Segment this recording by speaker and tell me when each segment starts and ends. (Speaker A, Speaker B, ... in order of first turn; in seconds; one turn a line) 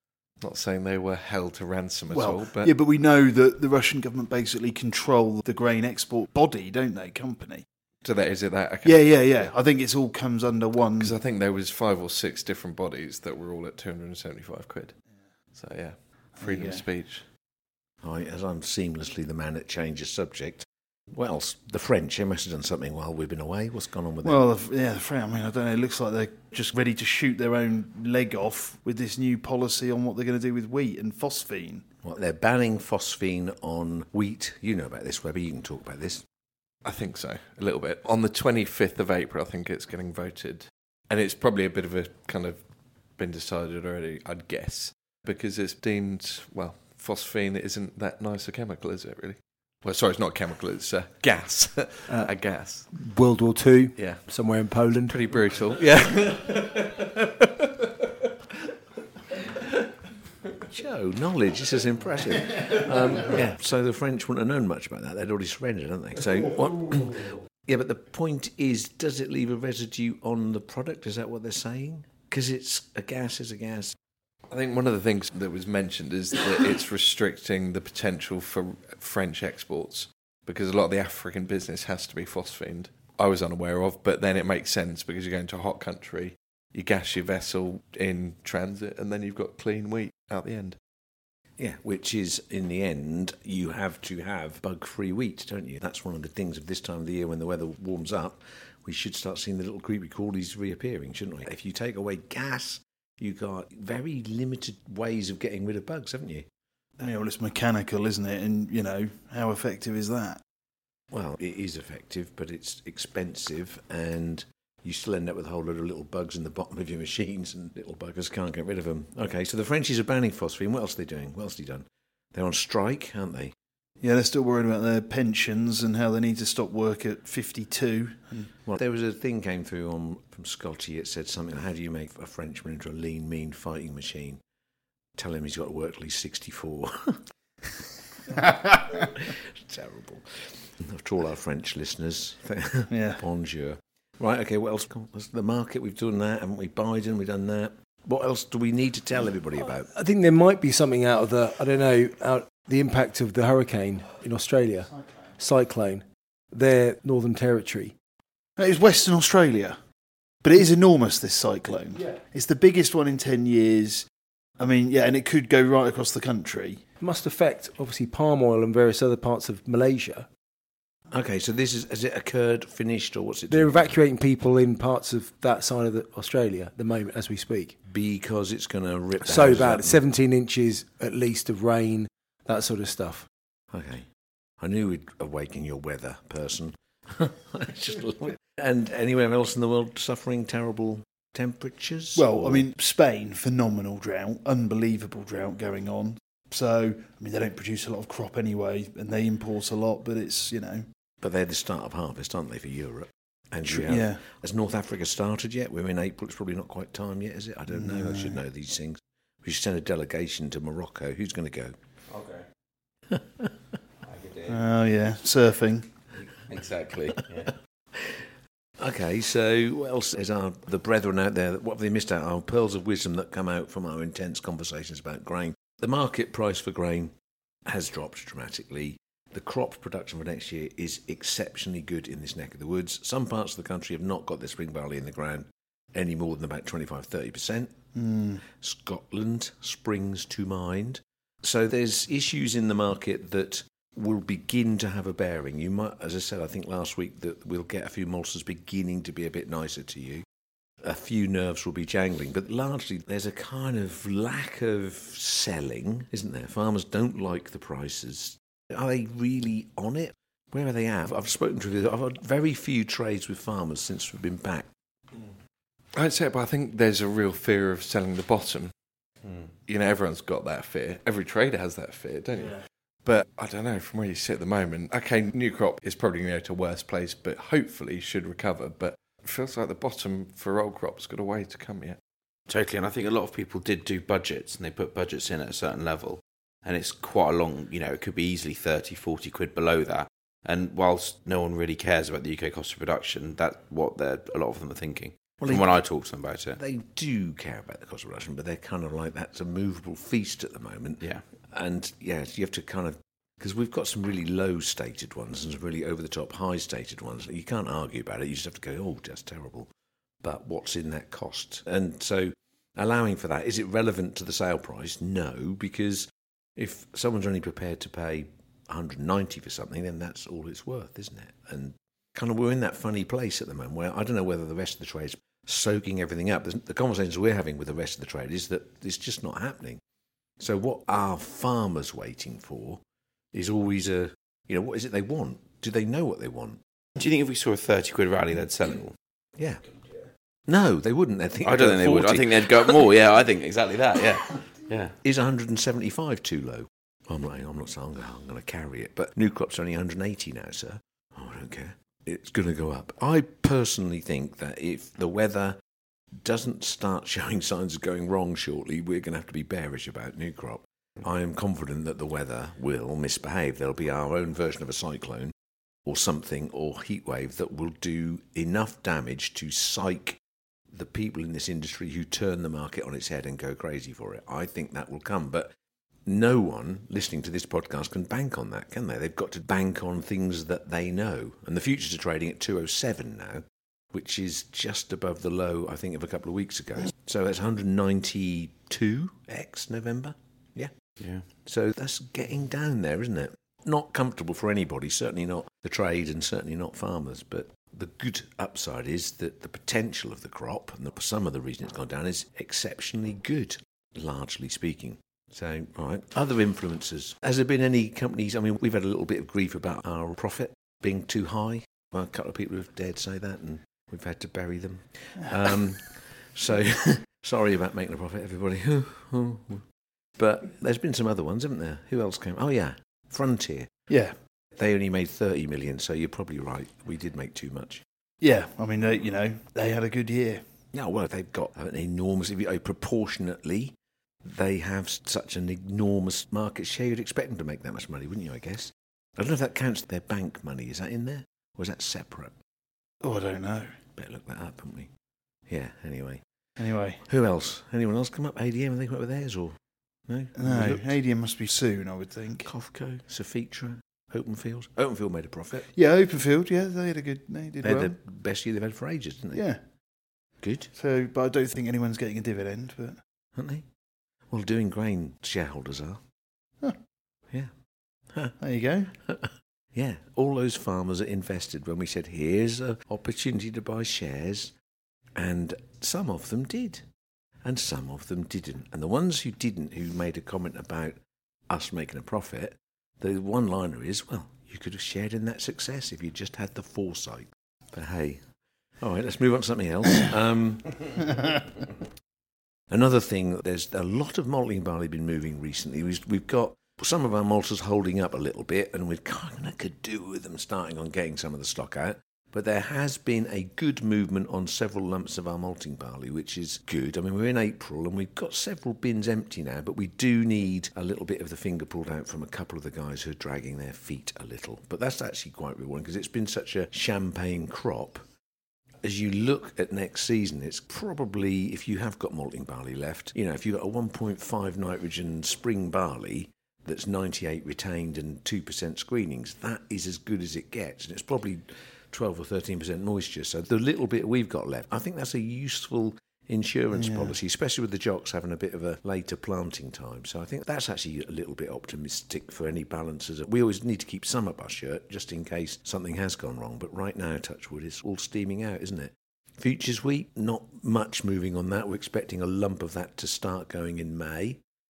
Speaker A: 0.4-2.7
Speaker B: 2.1-7.7
Speaker A: 8.0-9.6
Speaker B: 8.8-11.2
Speaker A: 11.0-15.0
Speaker A: 15.5-17.3
Speaker B: 16.4-16.8
Speaker C: 18.0-24.4
Speaker B: 24.2-31.9
Speaker C: 32.0-36.2
Speaker A: 36.8-53.0
Speaker D: 52.9-55.2
Speaker A: 54.0-54.5
Speaker A: 55.1-57.5
Speaker C: 60.7-74.0
Speaker A: 74.5-90.8
Speaker C: 91.6-106.5
Speaker B: 107.0-110.4
Speaker C: 111.1-123.5
Speaker B: 124.0-128.5
Speaker C: 128.7-134.4
Speaker C: 135.2-137.2
Speaker C: 137.8-149.9
Speaker B: 142.9-143.2
Speaker D: 149.9-158.0
Speaker B: 158.6-159.8
Speaker B: 160.4-164.1
Speaker B: 164.6-166.8
Speaker D: 167.0-170.3
Speaker C: 171.1-173.9
Speaker D: 173.5-177.8
Speaker C: 177.9-180.0
Speaker D: 179.2-183.3
Speaker C: 183.7-192.7
Speaker B: 192.2-200.9
Speaker C: 201.2-211.8
Speaker B: 203.7-204.2
Speaker B: 207.7-208.4
Speaker E: 212.1-212.5
Speaker C: 213.1-213.5
Speaker E: 214.0-214.6
Speaker B: 214.5-215.9
Speaker E: 216.3-217.6
Speaker C: 217.9-218.2
Speaker C: 218.8-227.1
Speaker C: 227.7-237.8
Speaker B: 238.0-238.4
Speaker C: 238.4-250.3
Speaker C: 250.8-264.7
Speaker A: 265.9-268.9
Speaker A: 269.6-282.0
Speaker E: 282.5-296.6
Speaker C: 295.4-295.8
Speaker C: 296.6-309.7
Speaker C: 310.2-329.8
Speaker C: 330.4-336.6
Speaker E: 337.0-339.0
Speaker C: 339.4-339.6
Speaker C: 340.4-342.9
Speaker E: 341.4-344.9
Speaker C: 345.0-355.6
Speaker C: 356.1-365.3
Speaker C: 365.8-375.5
Speaker C: 376.1-390.7
Speaker E: 391.0-391.3
Speaker C: 391.2-419.7
Speaker C: 420.2-423.9
Speaker B: 423.9-424.1
Speaker C: 424.5-427.8
Speaker B: 428.2-430.4
Speaker C: 430.7-442.4
Speaker B: 443.0-443.8
Speaker C: 443.9-444.9
Speaker C: 445.5-446.2
Speaker B: 446.6-447.0
Speaker C: 447.1-451.0
Speaker B: 450.4-452.5
Speaker C: 452.4-455.7
Speaker B: 455.7-458.0
Speaker C: 457.6-459.5
Speaker B: 459.3-459.6
Speaker B: 460.2-463.0
Speaker C: 460.4-460.7
Speaker C: 463.4-463.7
Speaker C: 464.3-466.0
Speaker C: 468.1-468.4
Speaker B: 468.4-468.9
Speaker C: 469.0-474.5
Speaker C: 475.1-476.8
Speaker C: 477.4-488.3
Speaker C: 488.8-491.2
Speaker C: 492.7-518.1
Speaker C: 518.8-554.4
Speaker B: 536.8-537.1